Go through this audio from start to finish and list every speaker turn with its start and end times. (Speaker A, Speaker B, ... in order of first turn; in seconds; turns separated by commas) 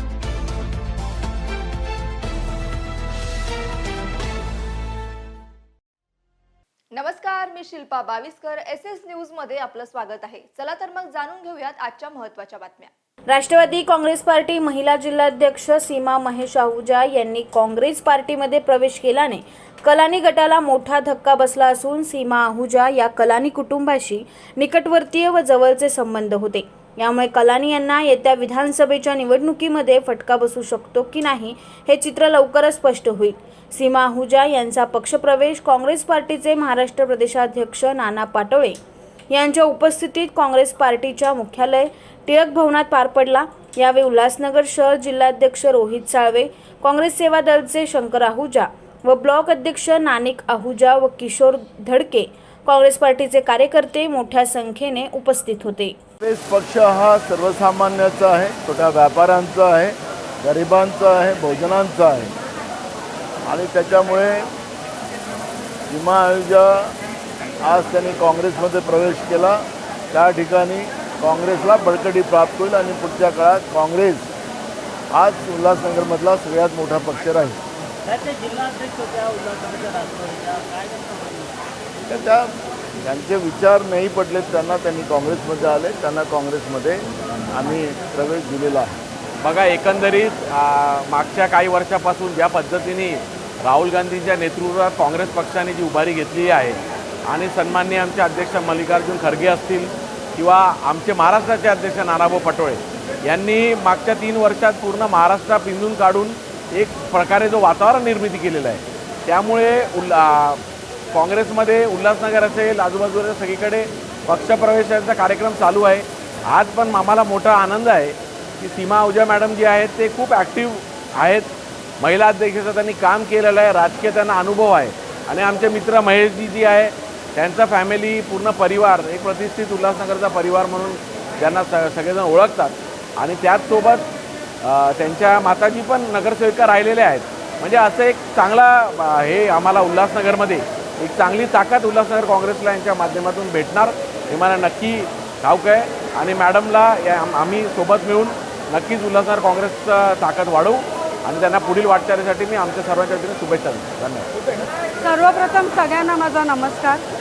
Speaker A: 6.9-12.9, Speaker B: 13.3-38.8, Speaker B: 39.3-56.0, Speaker C: 56.2-62.3, Speaker C: 63.5-64.5, Speaker C: 65.9-66.9, Speaker C: 67.6-74.3, Speaker C: 75.1-77.6, Speaker D: 78.0-81.5, Speaker C: 82.1-89.0, Speaker E: 89.4-134.1, Speaker E: 134.6-154.3, Speaker F: 155.0-157.0